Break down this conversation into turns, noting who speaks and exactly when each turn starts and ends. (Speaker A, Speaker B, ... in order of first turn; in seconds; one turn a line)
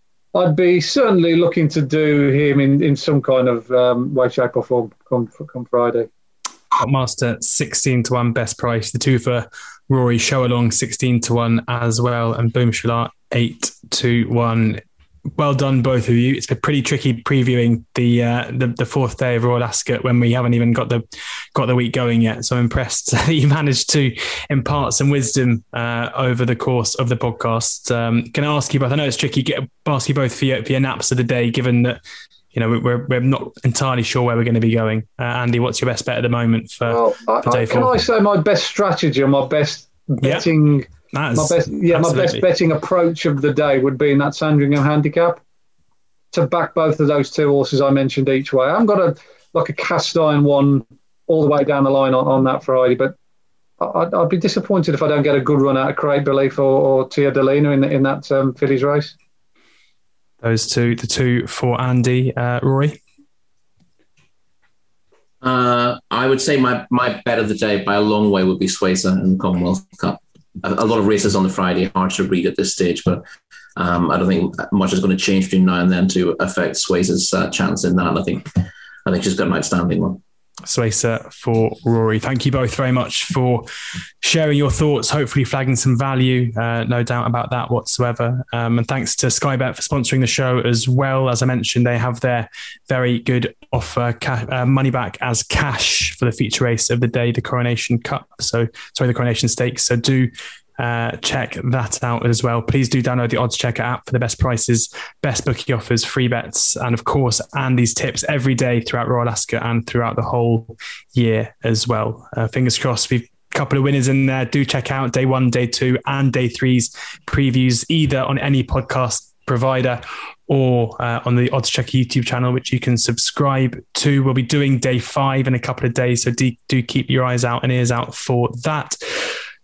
Speaker A: 0.3-6.1
Speaker B: 6.8-14.8
Speaker B: 15.4-32.0
Speaker B: 32.5-37.9
Speaker A: 36.8-45.4
Speaker B: 41.1-42.4
Speaker A: 46.3-53.1
Speaker A: 53.8-59.1
Speaker B: 60.4-63.0
Speaker C: 65.4-73.2
Speaker C: 73.8-78.5
Speaker C: 79.0-80.2
Speaker B: 80.7-83.7
Speaker B: 84.2-129.3